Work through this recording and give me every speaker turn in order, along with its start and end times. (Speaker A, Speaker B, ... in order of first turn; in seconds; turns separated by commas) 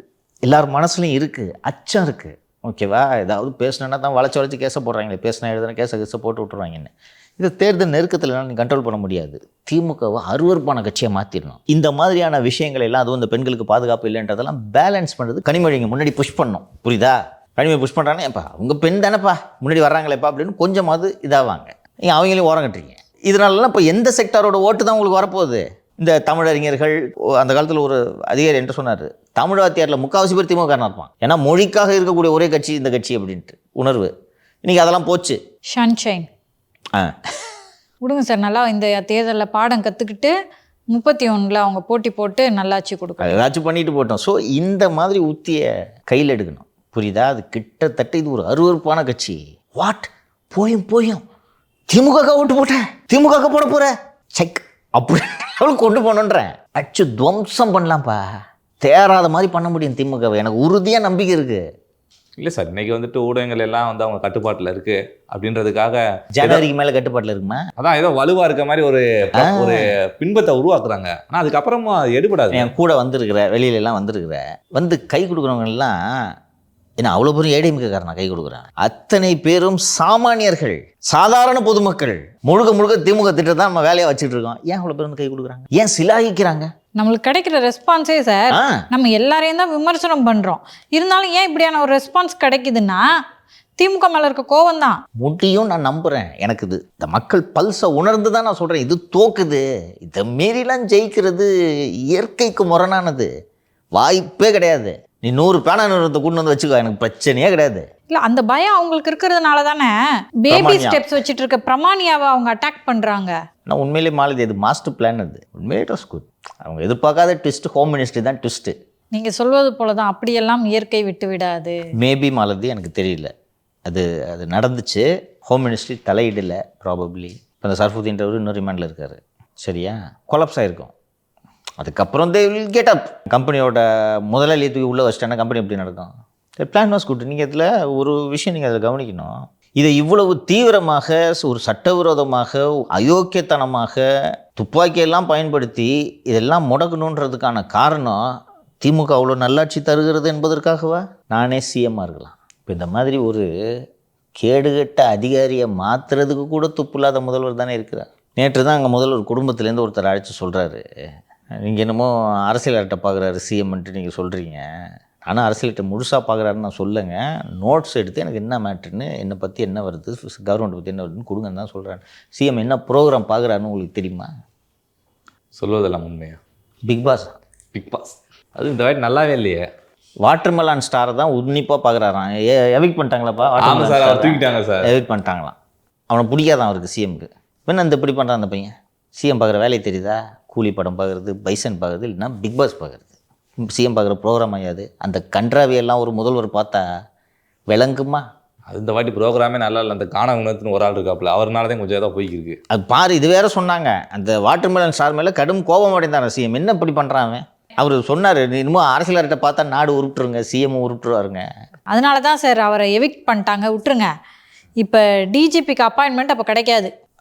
Speaker A: 0.5-34.1, Speaker A: 34.6-35.4, Speaker B: 35.7-36.3, Speaker B: 38.0-40.3, Speaker B: 40.9-43.4, Speaker A: 43.2-51.2, Speaker A: 51.9-58.2, Speaker A: 58.8-61.6, Speaker C: 62.4-66.6, Speaker A: 66.3-67.6, Speaker C: 67.8-72.7, Speaker A: 69.4-69.8, Speaker A: 72.5-76.0, Speaker A: 77.0-86.7, Speaker B: 87.0-93.1, Speaker A: 88.5-88.8, Speaker B: 93.8-95.0, Speaker A: 95.2-101.5, Speaker A: 102.1-103.3, Speaker A: 104.0-107.8, Speaker B: 108.1-113.3, Speaker A: 110.5-111.0, Speaker A: 113.7-118.7, Speaker B: 119.1-121.8, Speaker A: 122.0-123.3, Speaker A: 123.9-130.9, Speaker A: 131.8-148.2, Speaker A: 148.8-153.4, Speaker A: 154.4-160.8, Speaker A: 161.6-164.7, Speaker A: 165.2-174.3, Speaker C: 175.6-176.4, Speaker A: 176.9-177.3, Speaker C: 177.7-179.7, Speaker A: 180.2-185.6, Speaker C: 183.6-184.9, Speaker A: 186.1-193.1, Speaker A: 193.6-196.8, Speaker A: 197.7-198.2, Speaker C: 198.7-202.6, Speaker A: 202.7-211.5, Speaker B: 211.9-214.1, Speaker B: 214.8-216.9